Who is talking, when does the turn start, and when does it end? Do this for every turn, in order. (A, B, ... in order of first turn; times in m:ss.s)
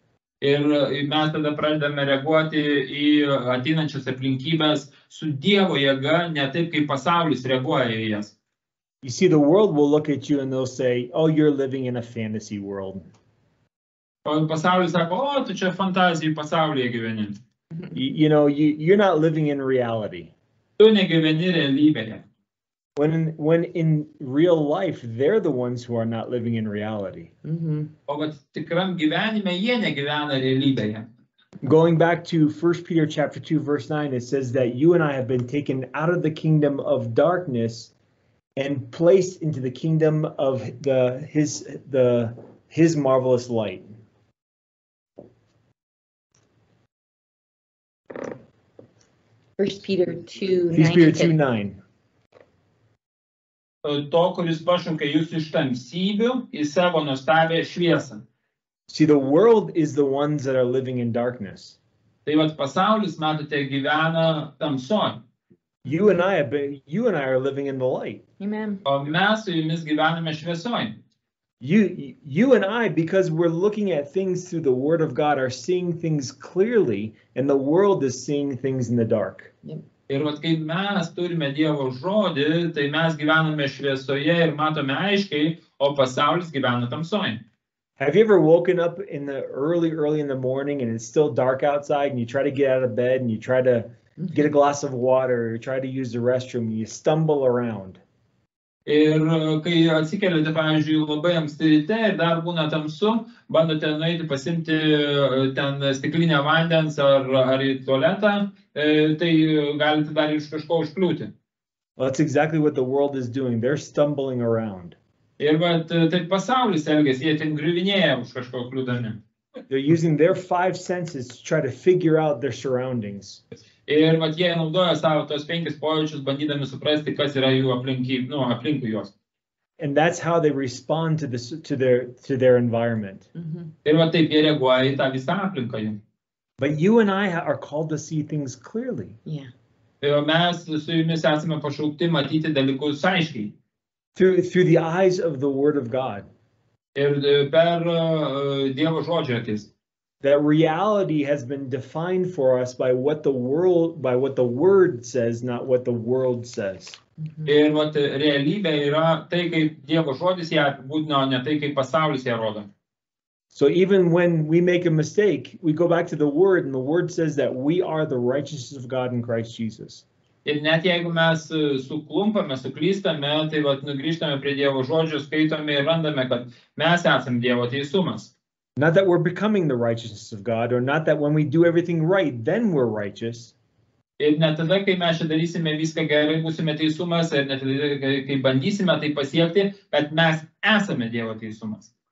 0:00.4-0:08.4 A
0:09.0-0:13.1 B
0:14.2-0:17.4 A
0:17.9-0:20.3 B
0:20.8-0:22.2 A
0:23.0-0:27.3 B
0:27.4-0:27.9 C
0:28.1-0:31.0 A
0:31.6-0:37.9 B
0:38.6-0:44.0 B
0:49.6-0:51.3 C
0:50.7-0:51.8 B
0:53.8-0:58.2 A
0:58.9-1:01.8 B
1:02.2-1:05.2 A
1:05.8-1:08.2 B
1:08.4-1:08.8 C
1:08.8-1:11.0 A
1:11.6-1:19.5 B
1:20.1-1:27.4 A
1:28.0-1:38.0 B
1:38.8-1:51.3 A
1:52.0-1:55.0 B
1:55.4-1:59.2 A
1:59.7-2:03.4 B
2:03.8-2:09.1 A
2:09.8-2:13.3 B
2:13.3-2:13.7 C
2:13.8-2:16.0 A
2:16.6-2:19.2 B
2:20.0-2:23.5 A
2:24.1-2:26.3 B
2:26.9-2:29.7 A
2:30.2-2:37.0 B
2:37.4-2:42.7 A
2:43.5-2:50.0 B
2:50.4-2:58.3 A
2:58.8-3:03.5 B
3:04.2-3:11.9 A